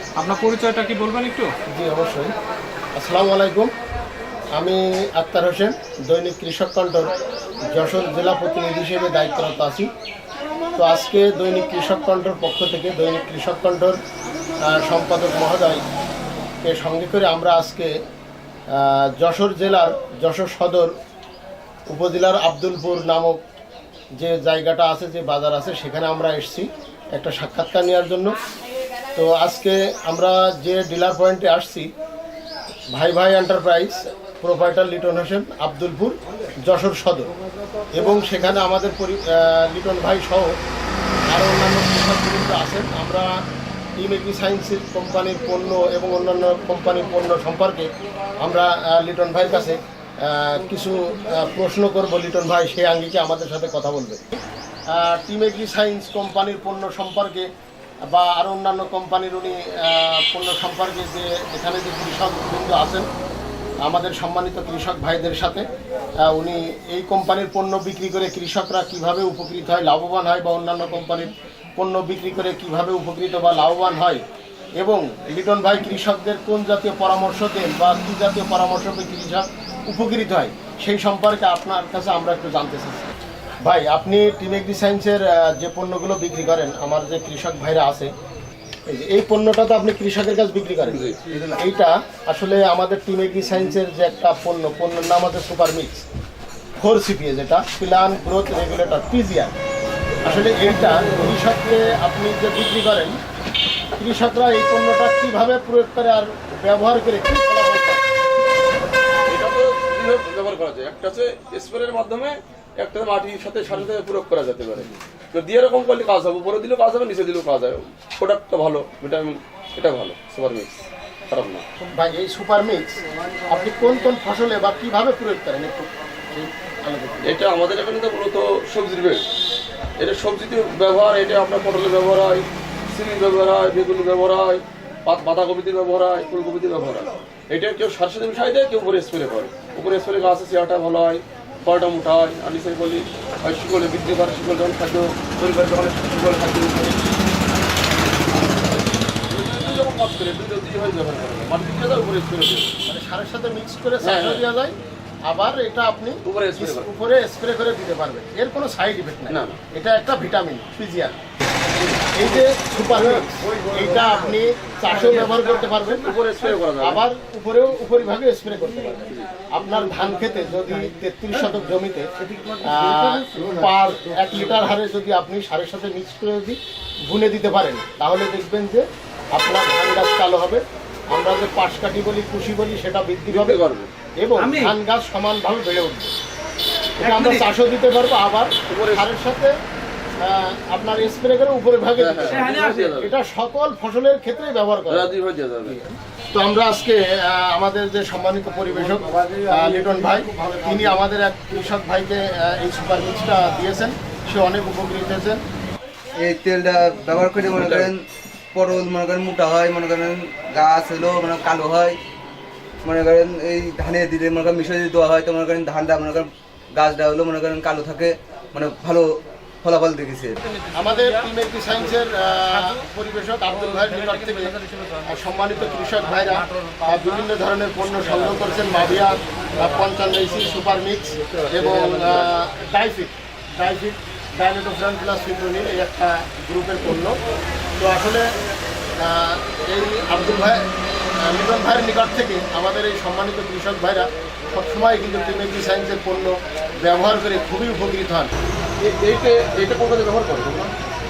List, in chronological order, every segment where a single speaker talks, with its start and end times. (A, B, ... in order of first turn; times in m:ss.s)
0:00.2-0:01.5 A
0:01.7-0:02.3 B
0:03.0-0:03.7 B
0:04.6-0:07.1 B
0:07.7-0:09.9 B
0:10.8-0:14.0 B
0:14.7-0:15.8 B
0:16.6-0:17.9 B
0:18.7-0:20.9 B
0:21.9-0:23.4 B
0:24.2-0:28.4 B
0:29.1-0:31.9 B
0:32.9-0:36.1 B
0:36.6-0:37.3 B
0:37.9-0:40.5 B
0:41.3-0:43.2 B
0:44.0-0:47.9 B
0:48.4-0:54.3 B
0:54.9-0:57.5 B
0:58.1-1:03.1 B
1:03.8-1:05.6 B
1:06.2-1:14.2 B
1:14.8-1:23.1 B
1:23.6-1:28.1 B
1:28.9-1:31.0 B
1:30.9-1:31.2 C
1:31.6-1:36.0 B
1:36.8-1:39.5 B
1:40.2-1:43.2 B
1:44.0-1:48.0 B
1:49.3-2:01.6 C
2:01.9-2:07.4 B
2:07.2-2:09.2 C
2:10.0-2:27.0 C
2:28.6-2:32.8 C
2:32.8-2:34.7 B
2:34.0-2:34.4 C
2:35.2-2:41.2 B
2:36.2-2:36.9 C
2:39.3-2:39.6 C
2:42.1-2:46.1 B
2:45.9-2:47.0 C
2:46.8-2:52.1 B
2:52.6-3:03.6 B
3:03.3-3:03.9 C
3:04.2-3:06.1 B
3:04.4-3:04.7 A
3:07.0-3:09.5 B
3:07.0-3:07.4 A
3:08.7-3:09.0 C
3:10.2-3:25.4 B
3:12.0-3:13.1 C
3:12.3-3:12.9 A
3:14.9-3:15.8 C
3:26.2-3:28.0 D
3:27.6-3:27.9 C
3:28.5-3:32.0 D
3:32.8-3:39.1 D
3:39.6-3:40.4 D
3:40.7-3:57.2 B
3:57.8-3:58.2 B
3:59.0-4:00.7 B
4:01.2-4:06.3 B
4:06.8-4:08.3 B
4:08.8-4:10.7 C